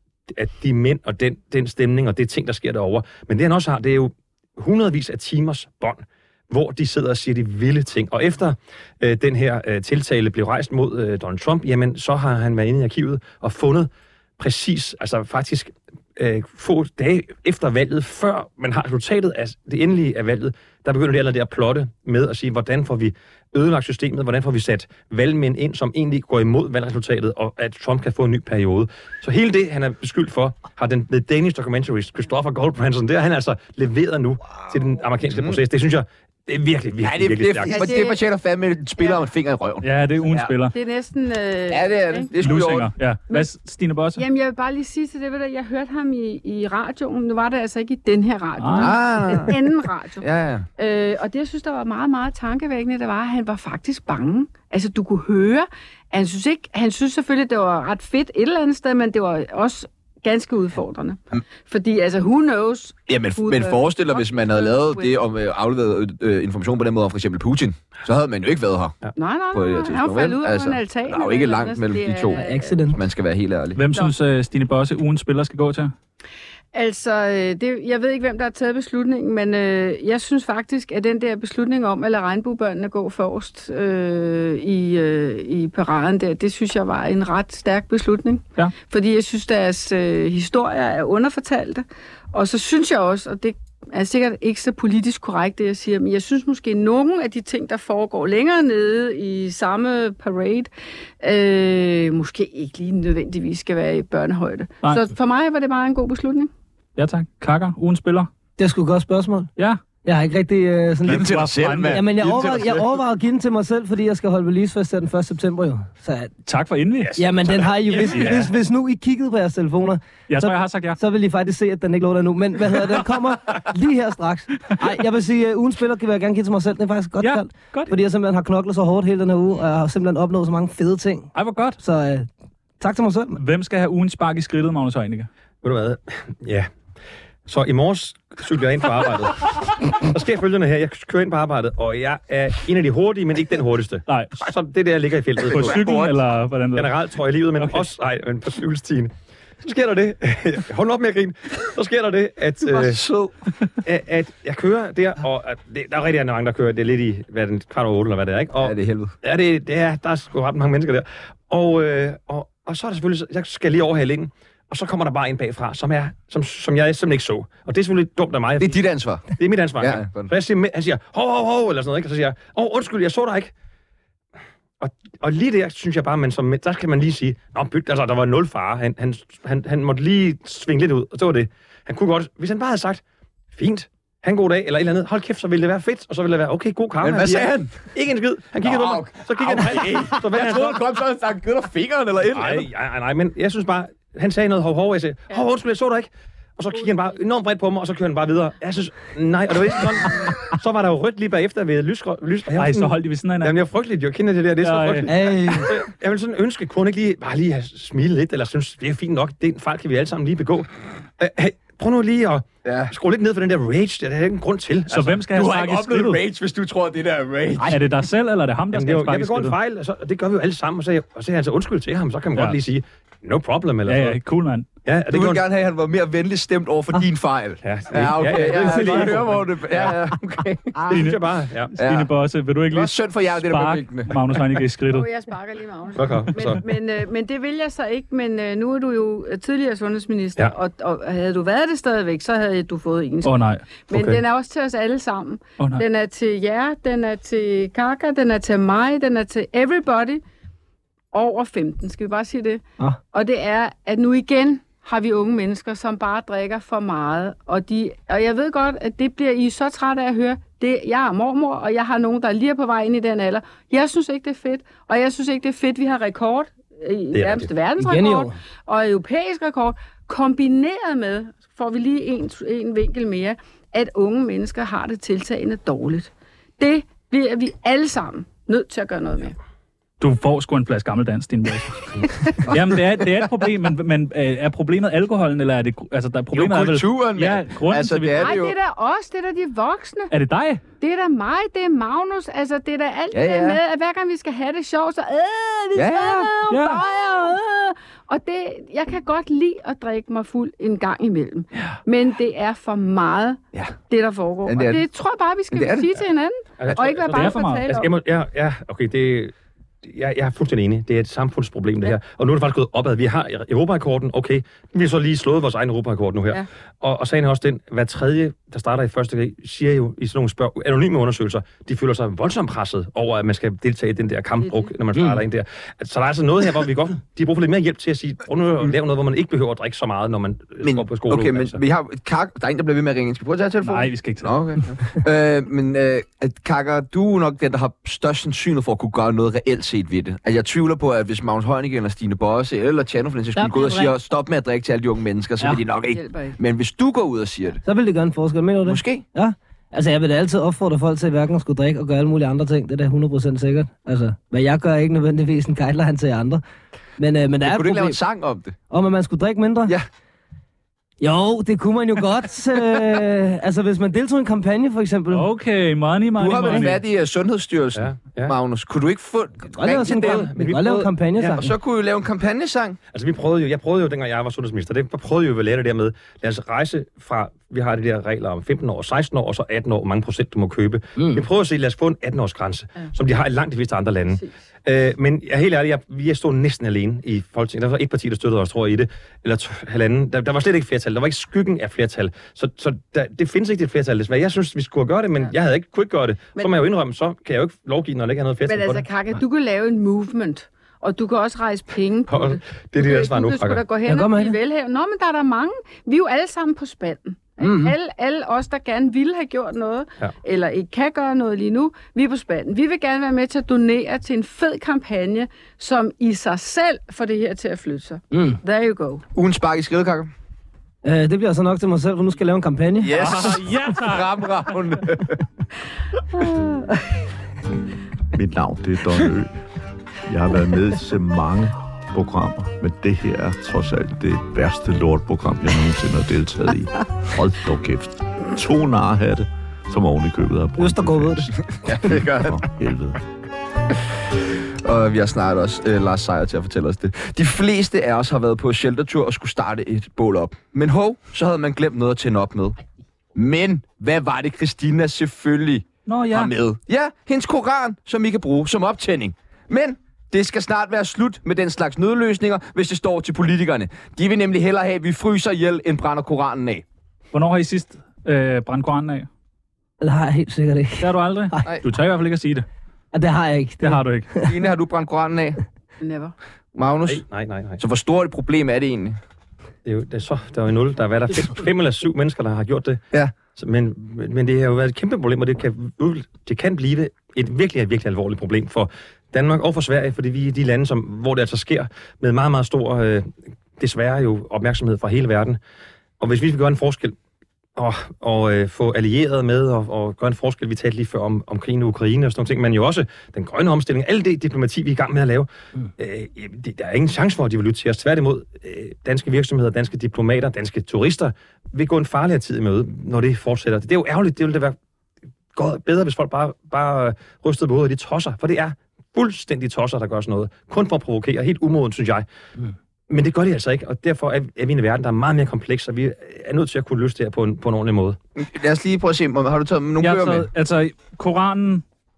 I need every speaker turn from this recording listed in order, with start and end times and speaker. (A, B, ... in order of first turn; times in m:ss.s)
0:00.3-0:37.9 A
0:37.0-0:40.5 B
0:37.7-0:38.2 C
0:39.8-0:40.7 D
0:40.7-0:42.3 C
0:41.7-0:42.9 B
0:42.4-0:44.2 D
0:44.2-0:50.2 C
0:48.6-0:49.0 D
0:48.8-0:49.6 B
0:50.2-0:50.7 B
0:50.8-1:05.2 C
1:03.1-1:09.0 B
1:09.2-1:12.7 C
1:09.5-1:13.8 B
1:12.4-1:13.0 E
1:13.8-1:15.9 D
1:16.7-1:40.7 C
1:41.2-1:46.5 C
1:47.0-1:48.3 D
1:48.6-1:49.5 E
1:50.0-1:56.3 E
1:51.0-1:52.6 B
1:51.1-1:52.8 D
1:56.5-1:57.2 D
1:57.2-2:12.3 E
1:57.9-1:58.5 D
2:00.3-2:01.0 D
2:07.2-2:07.9 D
2:11.4-2:11.8 D
2:12.8-2:13.4 E
2:13.4-2:15.3 D
2:15.6-2:16.7 A
2:17.5-2:25.9 A
2:24.1-2:24.4 D
2:25.5-2:26.9 D
2:25.5-2:26.2 B
2:26.8-2:33.0 A
2:27.6-2:27.8 D
2:32.6-2:33.3 B
2:33.8-2:48.8 A
2:38.6-2:39.2 B
2:48.6-2:49.3 B
2:49.3-2:53.5 A
2:49.8-2:50.3 B
2:54.8-3:03.0 A
3:03.5-3:10.8 A
3:07.0-3:07.9 B
3:08.6-3:12.7 B
3:12.3-3:35.2 A
3:22.6-3:23.6 D
3:24.6-3:25.1 D
3:25.1-3:25.8 E
3:32.6-3:32.9 B
3:34.9-3:36.2 D
3:35.3-3:37.8 B
3:37.6-3:39.6 D
3:38.7-3:44.2 A
3:43.9-3:44.7 D
3:44.9-3:45.4 A
3:45.1-3:51.0 B
3:47.6-3:50.0 A
3:50.8-3:51.7 A
3:50.9-3:51.2 D
3:51.8-3:55.1 D
3:51.8-3:52.1 B
3:52.7-3:54.4 B
3:54.9-4:03.3 C
3:56.0-3:56.6 A
4:03.2-4:03.6 D
4:03.9-4:10.2 C
4:03.9-4:04.2 A
4:05.6-4:05.8 D
4:11.1-4:39.4 C
4:27.1-4:27.5 A
4:27.8-4:28.4 E
4:40.0-4:48.3 D
4:46.3-4:48.6 B
4:48.2-4:50.1 C
4:50.1-4:50.6 D
4:50.8-5:07.9 C
4:53.1-4:53.6 B
4:55.8-4:56.3 B
4:56.5-4:56.8 D
5:04.4-5:04.8 B
5:05.5-5:05.9 B
5:06.6-5:31.6 A
5:07.1-5:07.6 D
5:25.0-5:25.2 E
5:30.6-5:47.6 B
5:33.6-5:34.4 D
5:45.9-5:46.4 C
5:47.6-5:56.4 E
5:48.6-5:49.0 B
5:57.0-5:58.0 E
5:57.4-5:58.6 B
5:58.7-5:59.8 E
6:01.0-6:05.3 E
6:05.1-6:06.8 D
6:06.2-6:10.3 B
6:07.8-6:08.4 A
6:09.5-6:11.5 E
6:09.8-6:10.9 A
6:11.2-6:12.8 B
6:12.9-6:38.8 A
6:21.0-6:21.2 E
6:38.5-6:59.0 C
6:42.1-6:43.6 A
6:43.9-6:44.4 E
6:47.4-6:47.8 E
6:58.1-6:58.4 E
6:59.2-7:00.1 B
7:00.8-7:02.9 E
7:02.8-7:05.2 B
7:03.0-7:04.6 D
7:08.1-7:09.3 F
7:10.1-7:23.0 F
7:20.6-7:21.4 E
7:21.4-7:22.4 B
7:24.6-7:32.6 B
7:33.2-7:46.6 B
7:35.9-7:36.3 D
7:47.1-7:49.1 D
7:49.8-7:51.4 E
7:50.8-7:52.5 D
7:52.9-7:53.8 E
7:53.6-7:54.1 D
7:54.2-7:55.4 B
7:55.8-7:56.1 C
7:56.6-7:57.0 B
7:56.9-7:57.6 A
7:57.6-7:59.0 B
7:59.6-8:15.4 A
8:16.0-8:17.0 A
8:17.6-8:34.6 A
8:35.3-8:42.0 A
8:42.9-8:48.0 A
8:48.2-8:50.3 B
8:49.8-8:51.6 D